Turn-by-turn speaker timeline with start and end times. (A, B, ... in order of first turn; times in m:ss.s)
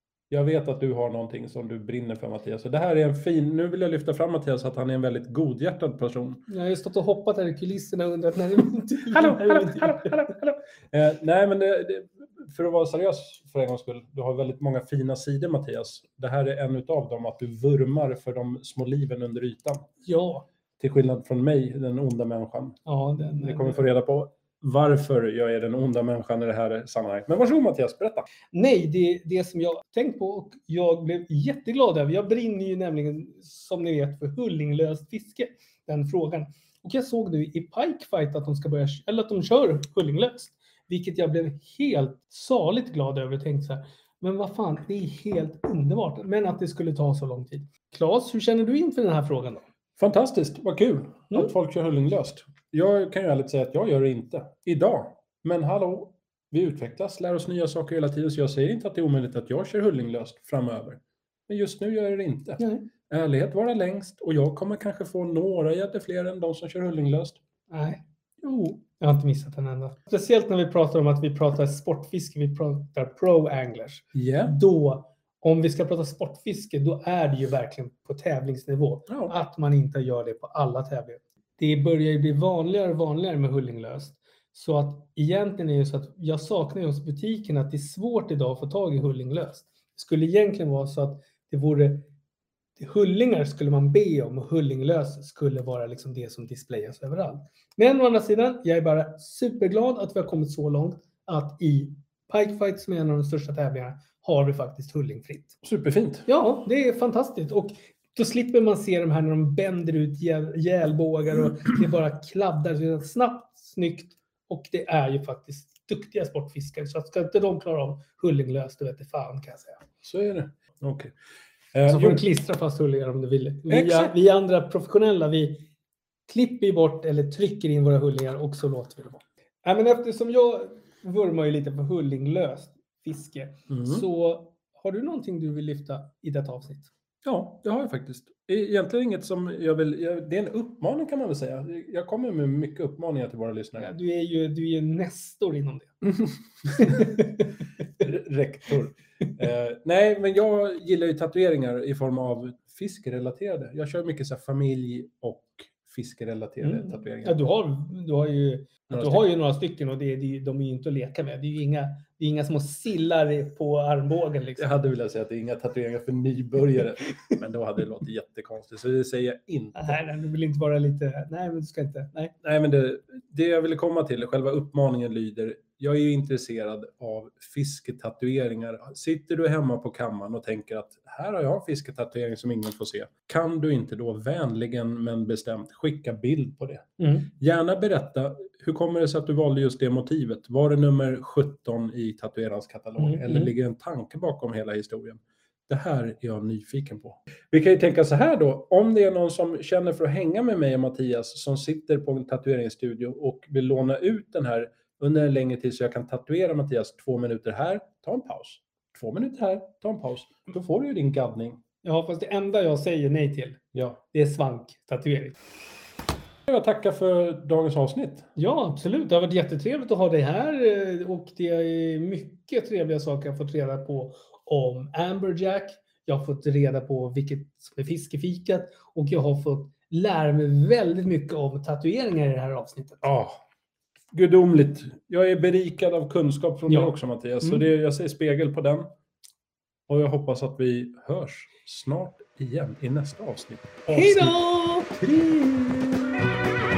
0:00.3-0:06.4 A
0:06.5-0:10.3 B
0:09.1-0:19.8 A
0:20.0-0:20.4 B
0:20.8-0:22.8 A
0:22.8-0:23.8 B
0:23.4-0:28.3 A
0:28.5-0:49.6 B
0:50.0-1:07.4 A
1:02.6-1:02.9 B
1:07.7-1:08.0 B
1:08.4-1:08.8 A
1:08.8-1:32.1 B
1:14.1-1:14.5 A
1:19.1-1:19.3 A
1:32.8-1:45.6 B
1:45.6-1:46.3 A
1:46.3-1:59.8 B
2:00.0-2:01.1 A
2:01.7-2:02.2 A
2:01.9-2:05.7 B
2:03.7-2:04.1 A
2:06.3-2:16.9 B
2:13.7-2:14.0 A
2:17.2-2:23.9 A
2:23.8-2:26.0 B
2:26.2-2:27.2 A
2:26.7-2:27.4 B
2:28.0-2:37.4 A
2:36.6-2:44.7 B
2:38.9-2:39.2 A
2:44.6-2:50.0 A
2:49.7-2:52.3 B
2:52.4-3:31.6 A
3:07.0-3:07.3 B
3:13.0-3:13.5 B
3:31.8-3:33.6 B
3:33.7-3:34.0 A
3:34.1-3:35.3 B
3:36.5-3:38.3 A
3:38.4-3:53.1 B
3:53.0-3:53.4 A
3:54.1-3:58.9 A
3:56.7-3:56.9 B
3:59.9-4:04.4 A
4:03.9-4:05.0 B
4:04.9-4:06.1 A